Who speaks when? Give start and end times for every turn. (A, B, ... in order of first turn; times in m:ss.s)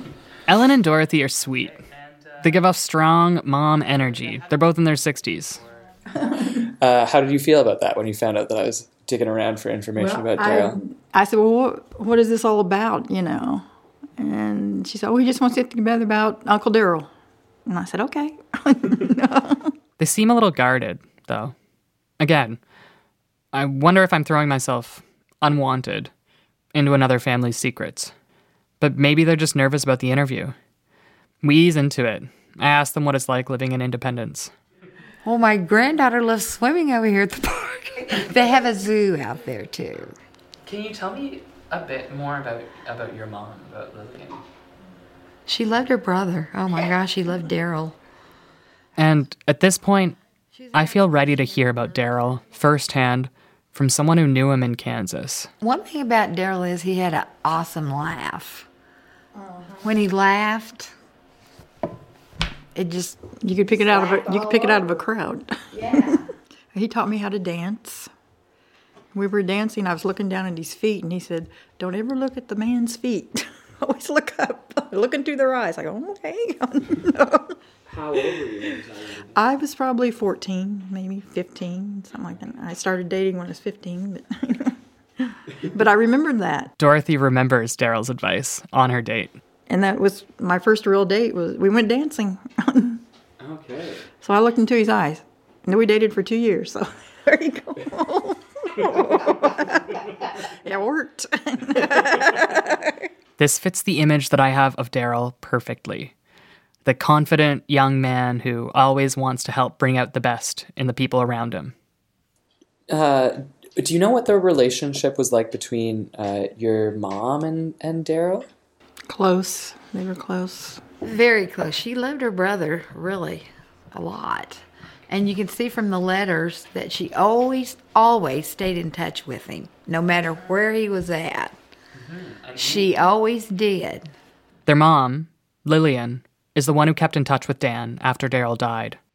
0:00.5-0:01.8 A
0:01.8-0:02.5 B
0:02.4-0:05.6 A
0:04.1-0:04.5 B
0:06.8-0:10.8 B
0:10.0-0:13.6 C
0:14.2-0:17.1 C
0:17.7-0:19.7 C
0:20.0-0:21.5 A
0:22.2-0:22.6 A
0:23.5-0:26.1 A
0:26.7-0:28.1 A
0:28.8-0:30.6 A
0:31.4-0:34.5 A
0:35.2-0:40.1 D
0:40.6-0:44.4 B
0:45.5-0:47.9 D
0:49.0-0:50.2 A
0:50.5-0:51.9 D
0:50.7-0:55.5 A
0:55.6-0:58.6 D
0:59.8-1:00.9 D
1:02.7-1:03.2 D
1:03.4-1:08.1 C
1:03.7-1:05.0 D
1:05.7-1:06.2 D
1:09.1-1:17.5 C
1:17.9-1:19.3 B
1:18.3-1:18.8 C
1:19.3-1:26.7 C
1:26.8-1:29.4 A
1:29.7-1:33.0 C
1:33.4-1:34.1 B
1:34.2-1:40.0 C
1:40.6-1:42.9 C
1:43.4-1:46.1 A
1:46.8-1:51.7 A
1:52.9-1:58.5 B
1:59.1-2:00.8 C
2:01.0-2:11.6 D
2:12.0-2:12.9 B
2:12.6-2:14.1 D
2:14.6-2:19.0 A